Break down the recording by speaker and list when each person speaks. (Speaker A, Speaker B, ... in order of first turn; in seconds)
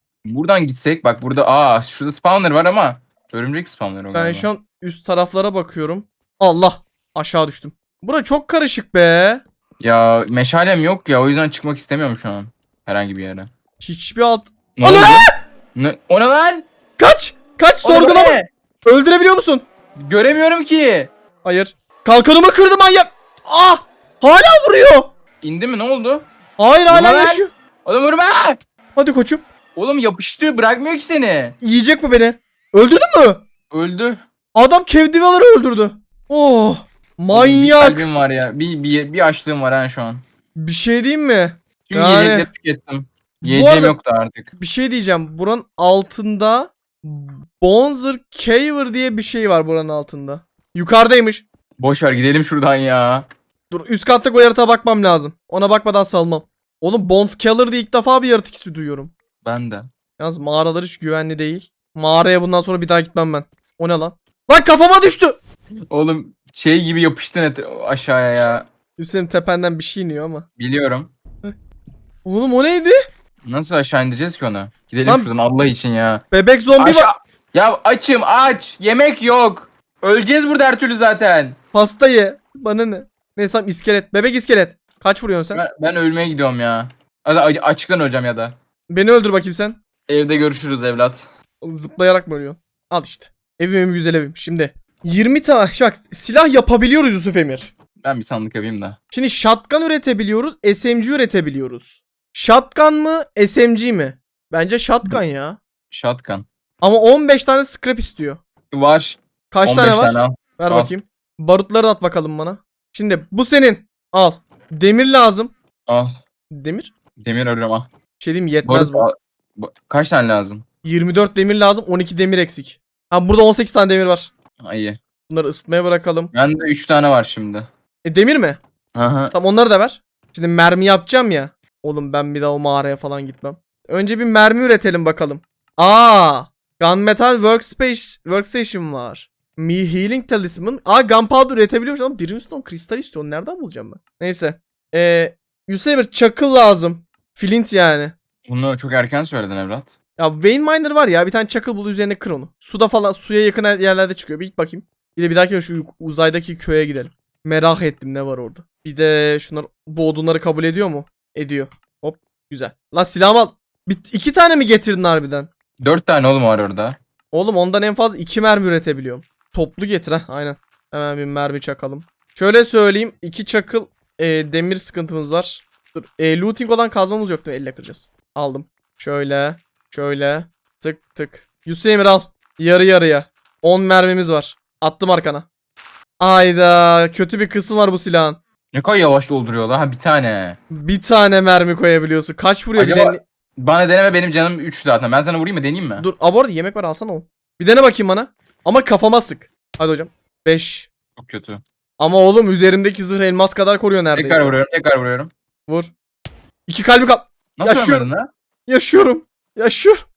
Speaker A: 0.2-4.5, 9.8-13.5, 14.8-16.6, 17.8-18.5, 20.0-21.1, 25.4-26.2, 26.9-28.6, 29.8-31.5, 33.7-34.2, 37.3-40.2, 41.9-44.5, 51.8-53.2, 59.4-59.9, 65.9-68.6, 70.6-71.1, 73.4-76.2, 76.8-81.6, 85.5-88.5, 90.1-91.2, 98.0-99.0, 105.9-106.4, 108.7-110.9, 115.9-116.2, 117.2-117.9, 118.6-120.6, 124.6-125.0, 126.3-127.7, 128.9-129.3, 148.5-149.9, 165.8-167.0, 188.7-190.6, 192.8-196.0, 201.2-201.6, 204.1-205.3, 207.6-208.3
Speaker B: 4.1-9.4, 13.8-15.3, 17.0-19.6, 21.4-25.1, 26.6-27.5, 28.9-29.4, 31.6-33.4, 34.5-38.1, 40.6-42.5, 43.4-44.0, 44.5-51.4, 53.7-59.1, 60.2-65.4, 69.0-70.5, 72.2-73.0, 76.3-77.1, 81.7-85.6, 88.9-89.8, 91.6-97.7, 99.1-105.6, 106.8-108.4, 109.5-115.5, 116.5-116.9, 118.2-119.1, 120.8-124.3, 125.3-126.3, 128.0-128.6, 129.3-148.1, 150.2-165.5, 167.3-185.4, 186.2-188.4, 190.7-193.2, 196.0-200.9, 202.0-204.5, 206.7-208.1, 208.7-210.0